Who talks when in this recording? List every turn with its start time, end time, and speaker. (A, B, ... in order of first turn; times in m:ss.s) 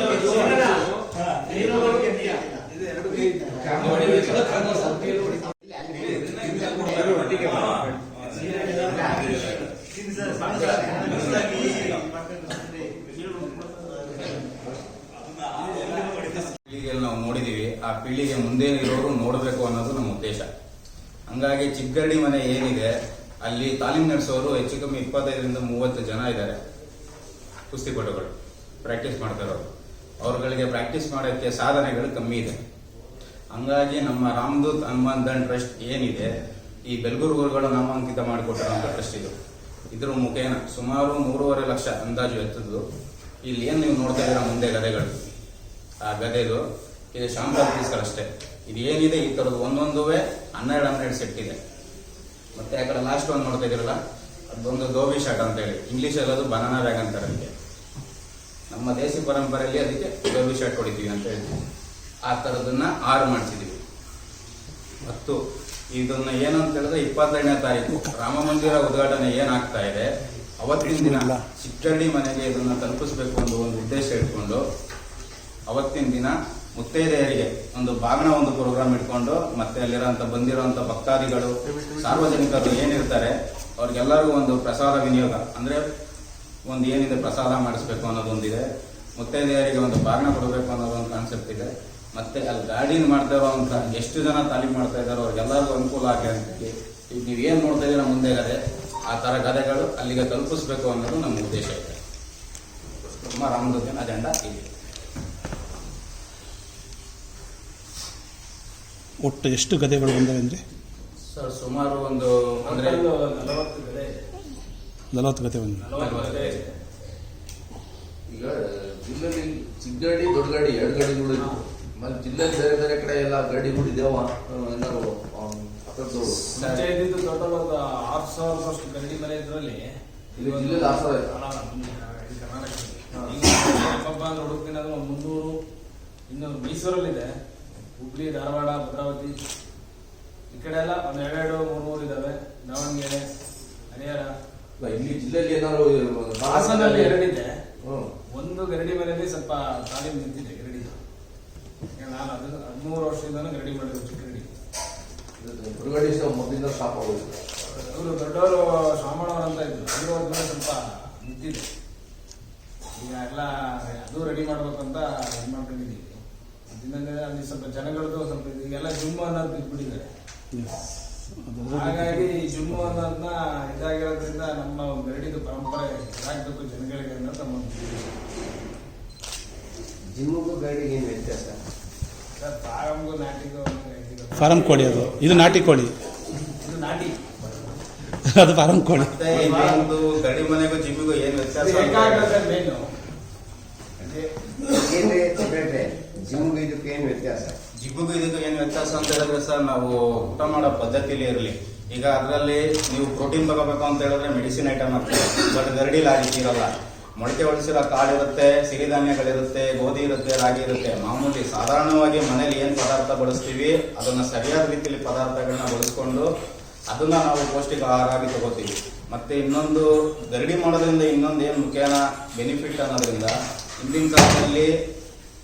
0:03.5-0:07.9 A
0:08.5-0:09.6 A
0:10.2-0:12.0 A
0:16.0-0:20.5 B
0:21.3-0:22.9 B
0:23.4-0:26.6 B
0:27.7-0:29.7 B
0:30.2-0:32.6 B
0:33.5-0:36.3 B
0:36.8-0:39.3 B
0:39.9-0:42.8 B
0:43.4-0:45.2 B
0:46.0-0:46.6 B
0:47.1-0:51.6 B
0:52.5-0:54.0 B
0:54.5-0:57.5 B
0:58.7-1:01.6 B
1:02.2-1:03.8 B
1:05.0-1:05.4 B
1:05.9-1:10.1 B
1:10.6-1:14.6 B
1:10.8-1:11.4 C
1:15.7-1:25.8 B
1:21.7-1:22.4 D
1:26.6-1:28.6 B
1:29.2-1:42.0 B
1:43.2-1:44.7 B
1:43.3-1:43.8 D
1:49.2-1:50.6 C
1:51.3-1:53.0 B
1:52.6-1:54.2 E
1:55.1-1:55.8 C
1:55.8-1:56.7 E
1:56.0-1:56.6 B
1:58.3-2:06.4 D
2:01.4-2:01.6 E
2:06.4-2:15.6 E
2:06.5-2:06.9 B
2:10.4-2:11.3 D
2:16.3-2:17.4 E
2:17.9-2:19.4 E
2:20.5-2:23.3 E
2:23.9-2:24.3 E
2:24.8-2:27.2 D
2:26.4-2:27.6 E
2:27.8-2:28.1 D
2:28.3-2:31.0 E
2:32.0-2:34.5 E
2:35.4-2:37.4 D
2:37.7-2:41.6 E
2:42.9-2:46.2 E
2:46.7-2:50.1 E
2:51.4-2:52.9 C
2:51.6-2:58.1 E
3:00.1-3:01.6 A
3:02.4-3:05.7 E
3:04.4-3:05.9 C
3:06.6-3:07.2 E
3:08.2-3:09.3 C
3:08.9-3:12.4 B
3:09.4-3:09.9 E
3:11.6-3:12.9 E
3:14.0-3:17.6 A
3:17.8-3:36.3 B
3:36.9-3:44.7 B